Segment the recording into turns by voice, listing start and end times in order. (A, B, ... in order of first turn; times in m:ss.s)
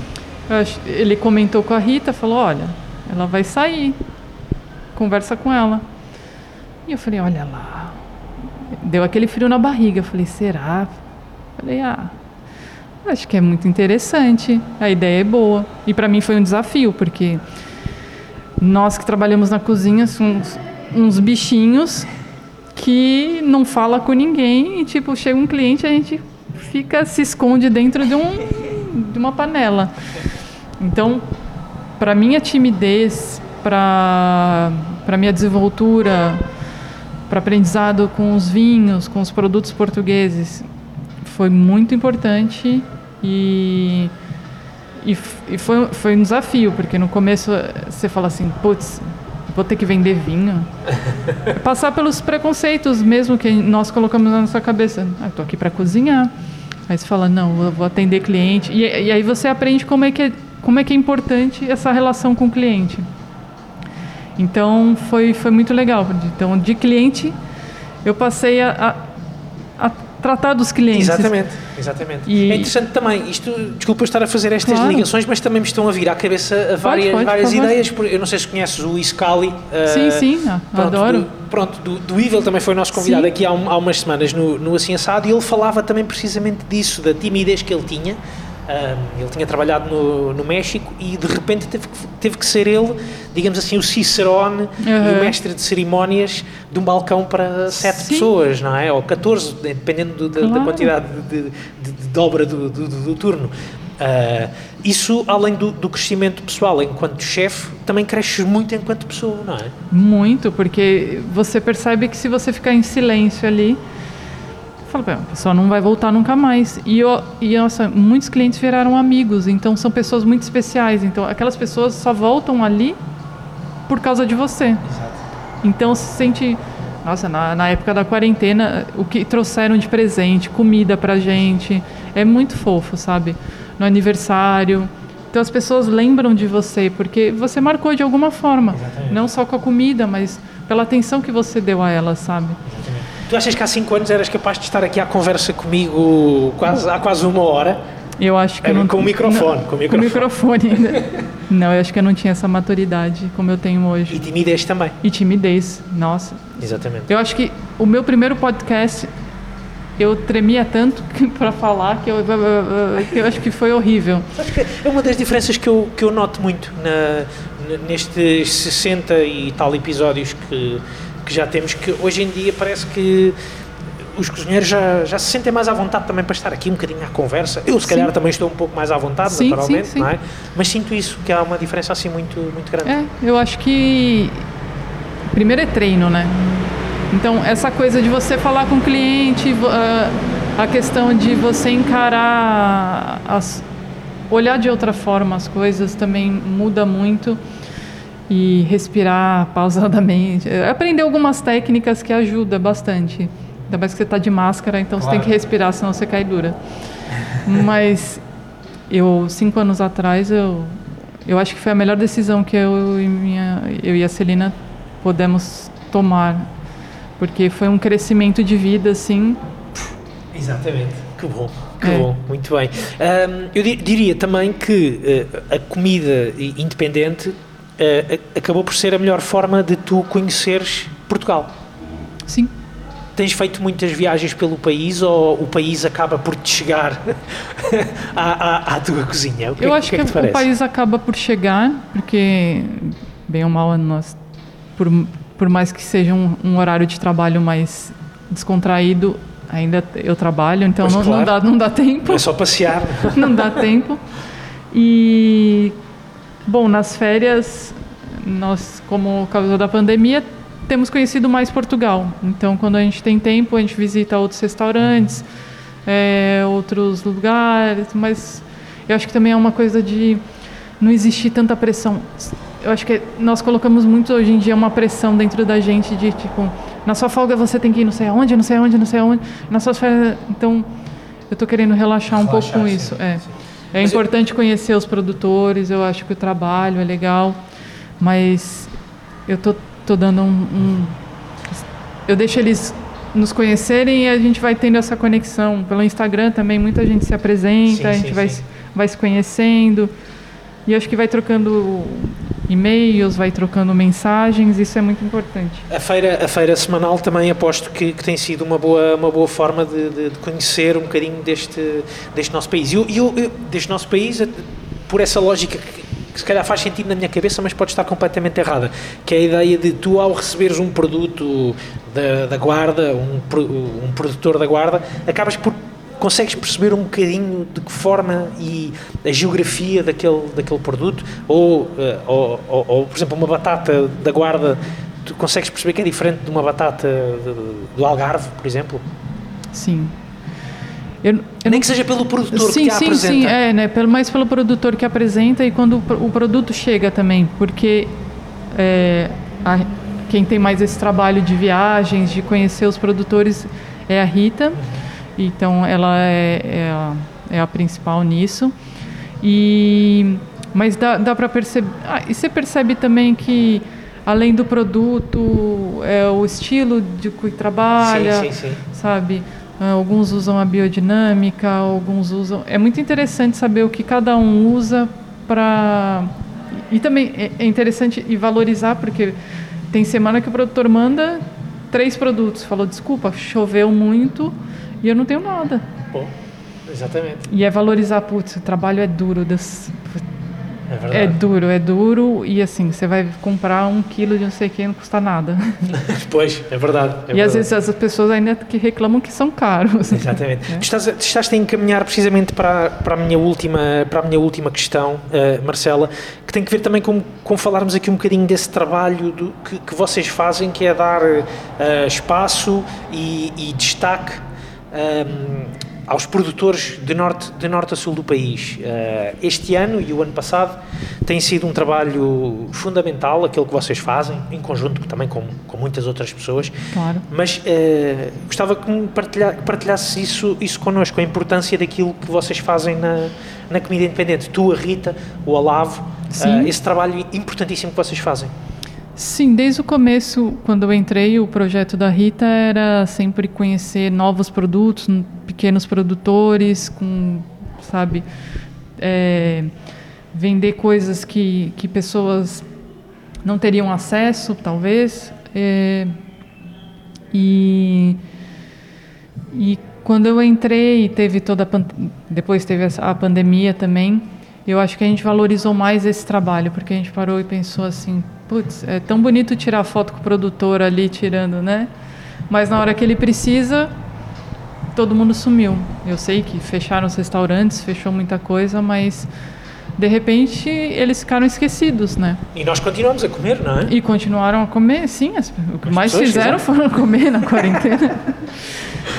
0:00.5-0:04.0 A
0:05.0-0:05.8 A
0:06.9-0:08.0 A
0:08.8-0:11.0 A
0:11.6-0:12.1 A
0:13.0-0:17.4 A
0:18.6-0:22.1 A
0:22.8-0:29.9 A
0:30.8-0:31.2 A
0:32.0-0:36.4 A
0:37.3-0:40.7 A
0:41.2-0:44.1 A
0:45.0-0:50.7 A
0:51.5-0:56.3 A
0:56.9-1:03.1 A
1:04.4-1:07.4 A
1:08.0-1:09.0 A
1:09.8-1:11.3 A
1:10.9-1:49.7 B
1:12.3-1:12.7 A
1:14.6-1:15.1 A
1:16.8-1:17.8 A
1:19.9-1:21.3 A
1:22.9-1:23.3 A
1:34.8-1:35.4 A
1:37.8-1:38.3 A
1:40.4-1:40.9 A
1:49.9-1:53.8 A
1:54.9-2:03.0 A
2:03.9-2:04.9 A
2:04.9-2:05.2 B
2:05.6-2:22.6 A
2:18.7-2:19.2 B
2:22.7-2:27.8 B
2:28.2-2:34.2 A
2:28.6-2:30.3 B
2:34.1-2:35.0 B
2:35.0-2:39.1 A
2:36.6-2:37.1 B
2:40.0-2:44.3 A
2:44.4-2:53.4 B
2:54.1-3:02.9 B
2:57.8-2:58.1 A
2:59.3-3:00.1 A
3:02.8-3:04.4 A
3:05.3-3:06.4 A
3:07.1-3:13.7 A
3:14.3-3:17.4 A
3:18.3-3:26.6 A
3:25.0-3:25.3 B
3:27.4-3:28.2 A
3:28.9-3:36.5 A
3:37.2-3:39.4 A
3:40.3-3:51.5 B
3:41.8-3:42.1 A
3:53.2-4:00.5 B
3:59.6-4:04.2 A
4:04.8-4:12.3 A
4:10.8-4:11.3 B
4:12.1-4:13.5 B
4:13.1-4:14.0 A
4:14.7-4:15.8 A
4:16.5-4:25.3 A
4:25.9-4:30.2 A
4:30.8-4:40.7 A
4:41.3-4:47.4 A
4:42.1-4:43.0 B
4:48.0-4:48.7 A
4:49.3-4:51.0 A
4:52.1-4:59.9 A
4:57.7-4:58.4 B
5:00.7-5:05.7 A
5:05.7-5:38.8 B
5:39.5-5:40.0 A
5:41.0-5:41.7 A
5:41.4-5:43.4 B
5:42.3-5:47.9 A
5:48.5-5:54.6 A
5:55.2-5:58.5 A
5:59.2-6:19.2 A
6:07.8-6:08.6 B
6:19.7-6:25.7 A
6:26.7-6:27.3 B
6:27.3-6:30.0 A
6:30.7-6:31.2 B
6:30.9-6:35.7 A
6:35.7-6:37.5 B
6:37.1-6:40.6 A
6:39.9-7:06.6 B
7:06.7-7:07.0 A
7:07.1-7:18.3 B
7:16.1-7:16.5 A
7:19.0-7:28.1 A
7:28.8-7:29.5 A
7:30.1-7:32.5 A
7:33.2-7:35.9 A
7:37.1-7:38.0 A
7:39.3-7:51.7 A
7:52.3-7:53.7 A
7:54.8-7:59.1 A
7:59.8-8:02.2 A
8:02.3-8:03.7 B
8:03.6-8:08.3 A
8:05.7-8:06.4 B